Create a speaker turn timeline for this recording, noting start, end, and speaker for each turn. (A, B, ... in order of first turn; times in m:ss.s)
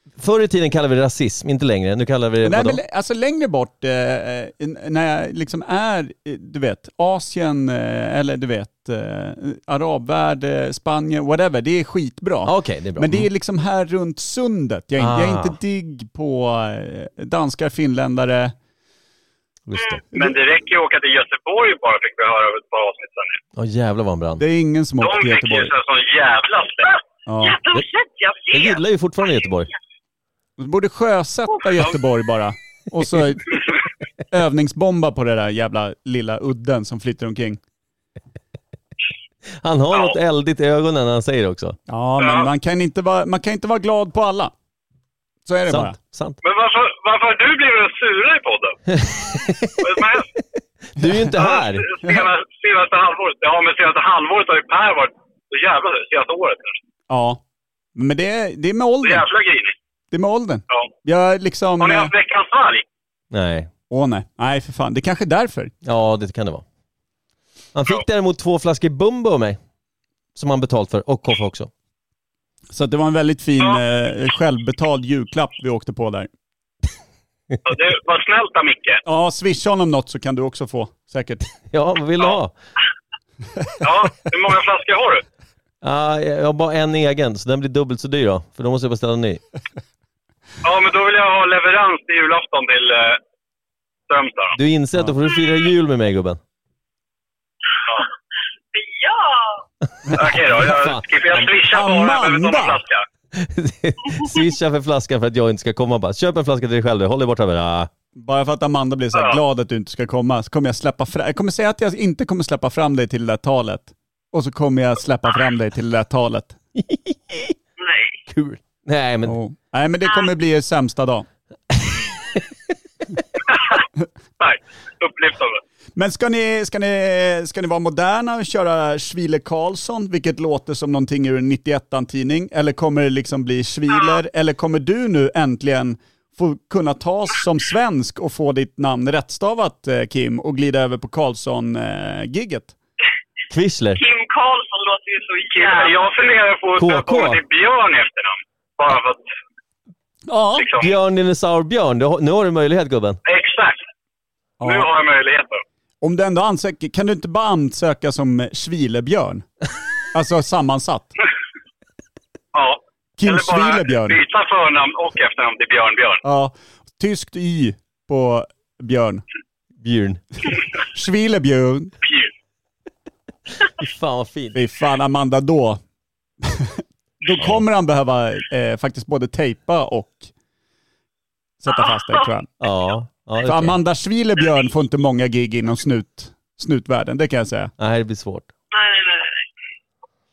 0:00.2-0:02.8 A
0:02.4-0:18.5 B
0:12.4-0:13.3 A
0:15.0-0:15.6 A
0:19.7-0:20.0 A
0:19.8-0:20.0 C
0:20.1-0:23.4 D
0:23.6-0:24.4 A
0:24.4-0:25.7 B
0:25.0-0:26.9 D
0:26.9-0:29.5 C
0:27.3-0:27.6 B
0:28.5-0:29.7 A
0:30.6-0:33.7 B
0:34.3-0:37.6 B
0:39.6-0:41.8 A
0:41.9-0:44.5 B
0:42.2-0:42.5 D
0:45.4-0:46.0 B
0:45.7-0:46.4 A
0:46.4-0:48.7 D
0:48.9-0:50.2 A
0:49.8-0:50.3 D
0:50.9-0:51.9 A
0:51.4-0:56.8 D
0:57.1-0:57.4 B
0:58.0-0:59.2 B
0:59.0-0:59.7 D
1:00.1-1:02.1 B
1:01.8-1:02.8 D
1:03.3-1:03.7 A
1:03.9-1:05.7 B
1:05.8-1:06.6 A
1:07.7-1:09.6 A
1:10.3-1:11.7 A
1:12.7-1:16.3 B
1:17.6-1:19.0 D
1:19.0-1:21.4 B
1:21.7-1:22.5 A
1:23.8-1:25.2 D
1:25.8-1:29.4 A
1:30.6-1:33.2 D
1:34.1-1:34.6 D
1:34.5-1:36.4 A
1:38.7-1:39.6 C
1:40.1-1:41.5 A
1:40.2-1:43.0 D
1:41.7-1:42.8 B
1:43.3-1:47.9 A
1:48.2-1:56.6 B
1:49.1-1:49.4 D
1:56.8-1:57.5 A
1:57.8-1:58.2 C
1:58.3-1:59.4 A
1:59.2-2:01.2 B
2:00.0-2:00.3 C
2:01.8-2:02.4 A
2:04.4-2:05.6 D
2:06.0-2:22.8 B
2:13.9-2:14.2 C
2:23.5-2:24.0 A
2:24.0-2:26.0 C
2:25.5-2:29.2 D
2:26.8-2:27.4 A
2:30.3-2:30.7 B
2:30.6-2:30.9 D
2:30.8-2:33.2 A
2:33.2-2:33.8 D
2:34.6-2:34.9 B
2:34.6-2:35.6 D
2:36.0-2:39.4 B
2:40.1-2:41.2 B
2:42.5-2:46.2 D
2:43.2-2:44.2 B
2:46.2-2:49.2 B
2:49.8-2:50.2 A
2:50.9-2:51.9 B
2:52.0-2:52.3 D
2:53.6-2:54.6 A
2:54.5-2:55.8 B
2:56.4-3:00.3 B
3:01.6-3:02.5 B
3:01.7-3:02.3 C
3:02.6-3:03.8 A
3:03.4-3:07.7 B
3:07.8-3:08.5 A
3:08.7-3:09.4 C